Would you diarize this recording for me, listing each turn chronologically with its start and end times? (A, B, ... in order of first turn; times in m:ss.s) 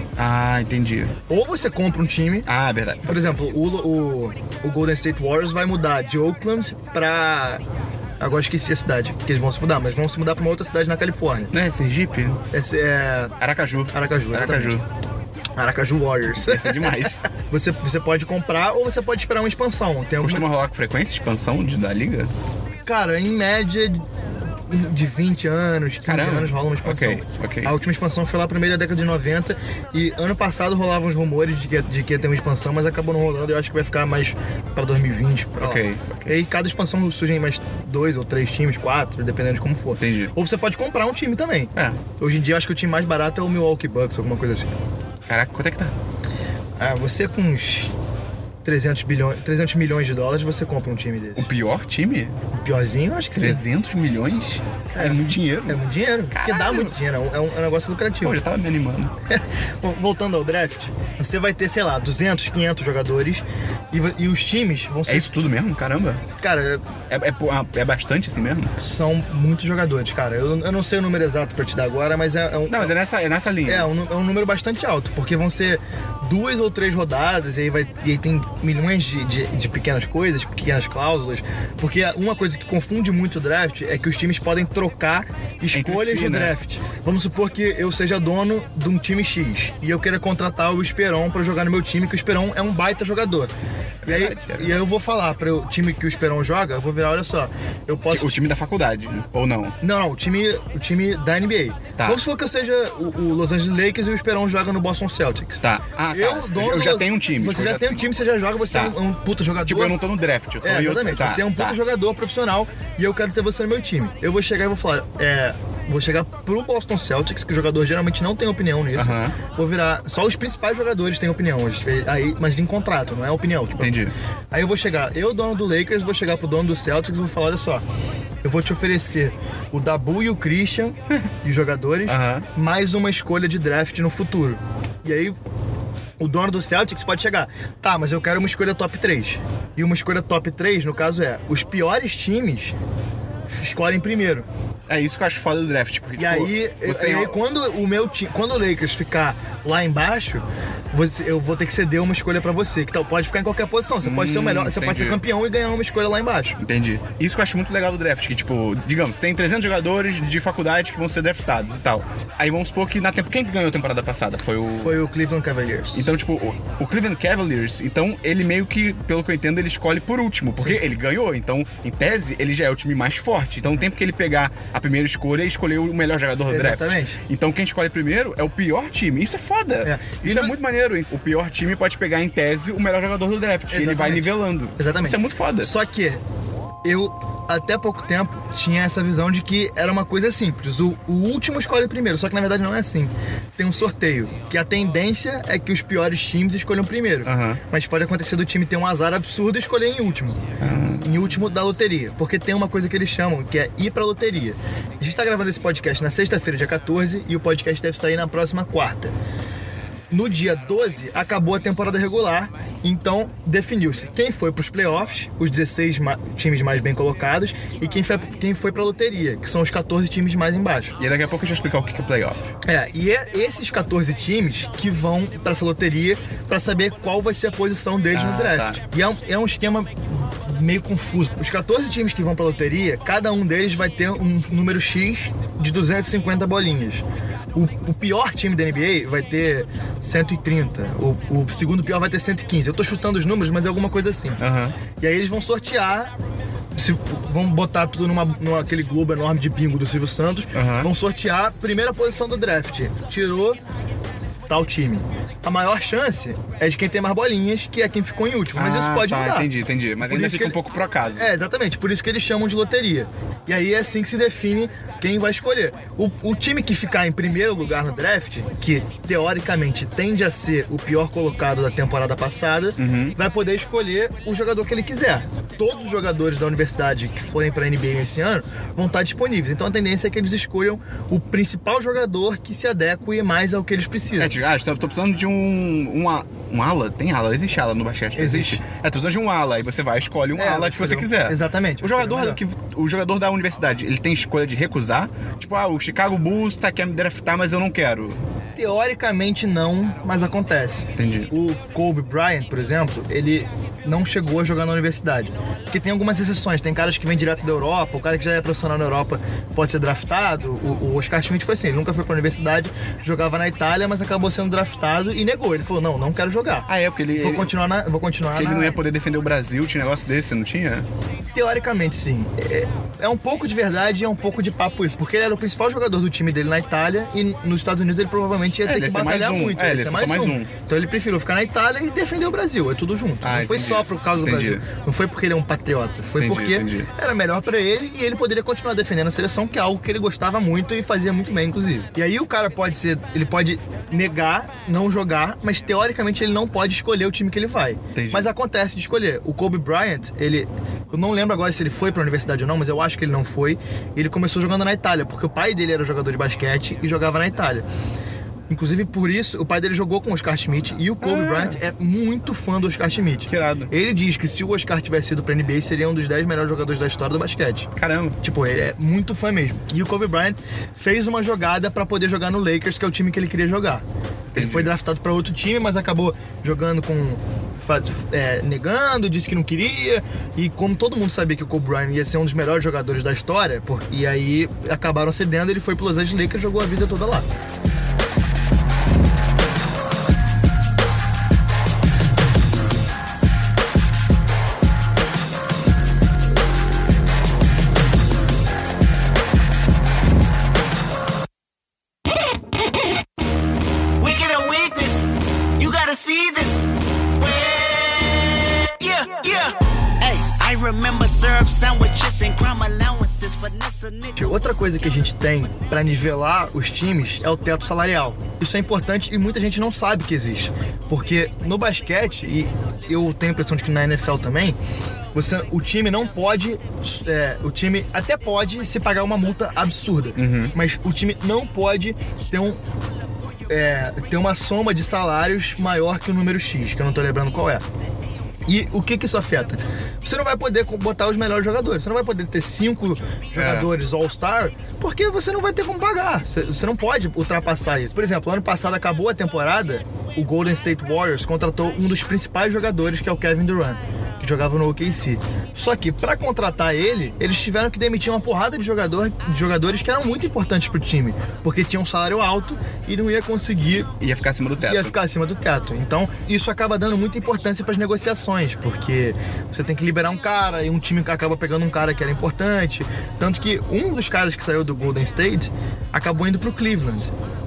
0:00.2-0:01.2 A
0:01.3-0:02.5 B
0:02.5-0:03.3 A
0:03.1-0:07.6 B
0:08.2-0:11.5 B
0:11.5-0:12.4 A
0:12.5-0:13.3 B
0:13.4-0:14.8 A
0:13.9-0:14.8 B
0:15.6-0:20.5 B
0:16.4-0:17.2 A
0:20.2-0:22.3 A
0:22.9-0:24.0 B
0:24.7-0:44.7 B
0:26.1-0:27.7 A
0:35.6-0:36.4 A
0:40.0-0:40.3 A
0:41.8-0:42.0 A
0:45.3-0:46.0 A
0:46.8-0:47.9 B
0:48.6-0:51.5 B
0:51.4-0:52.4 A
0:52.5-0:53.6 B
0:53.4-0:56.9 A
0:54.9-0:58.4 B
0:58.2-0:59.1 A
0:59.3-1:05.4 B
1:05.1-1:06.2 A
1:06.4-1:06.8 B
1:07.1-1:08.8 A
1:08.8-1:13.0 B
1:12.7-1:13.9 A
1:13.7-1:33.5 B
1:25.7-1:26.6 A
1:34.0-1:34.8 A
1:34.0-1:38.4 B
1:38.1-1:39.8 A
1:39.8-1:50.0 B
1:45.6-1:48.1 A
1:49.6-1:51.8 A
1:50.6-2:04.0 B
1:58.9-1:59.4 A
2:03.8-2:04.1 A
2:04.5-2:07.8 B
2:08.4-2:15.4 B
2:12.1-2:12.5 A
2:16.2-2:22.8 B
2:23.5-2:24.5 B
2:24.9-2:27.4 A
2:26.2-2:36.6 B
2:34.0-2:35.2 A
2:36.6-2:45.0 A
2:44.7-2:46.1 B
2:45.9-3:05.7 A
2:56.5-2:57.2 B
2:59.8-3:00.6 B
3:03.7-3:06.2 B
3:06.8-3:20.4 B
3:17.2-3:17.6 A
3:20.6-3:21.1 A
3:21.0-3:29.1 B
3:30.1-3:40.9 B
3:41.0-3:42.5 A
3:42.6-3:57.0 B
3:48.1-3:48.8 A
3:57.6-4:04.4 B
4:04.4-4:04.8 A
4:05.0-4:06.1 B
4:06.8-4:13.6 B
4:10.5-4:10.9 A
4:14.5-4:19.5 B
4:18.6-4:21.3 A
4:20.0-4:20.6 B
4:21.2-4:44.4 B
4:32.8-4:33.2 A
4:44.2-4:58.2 A
4:48.2-4:48.6 B
4:50.4-4:52.4 B
4:58.6-5:18.8 B
5:01.0-5:01.3 A
5:16.7-5:17.5 A
5:18.3-5:20.9 A
5:21.3-5:57.7 B
5:28.6-5:30.5 A
5:33.2-5:34.6 A
5:36.2-5:36.9 A
5:47.9-5:48.3 A
5:58.5-6:13.8 B
6:01.0-6:01.6 A
6:03.3-6:03.7 A
6:07.8-6:08.2 A
6:14.3-6:14.7 A
6:14.4-6:27.3 B
6:44.0-6:45.1 C
6:45.6-6:46.6 C
6:47.2-6:54.2 C
6:54.2-7:04.6 B
7:05.1-7:12.6 B
7:10.2-7:10.5 A
7:13.5-7:17.6 B
7:18.5-7:43.9 B
7:23.4-7:23.7 A
7:44.0-7:44.9 A
7:44.6-7:57.1 B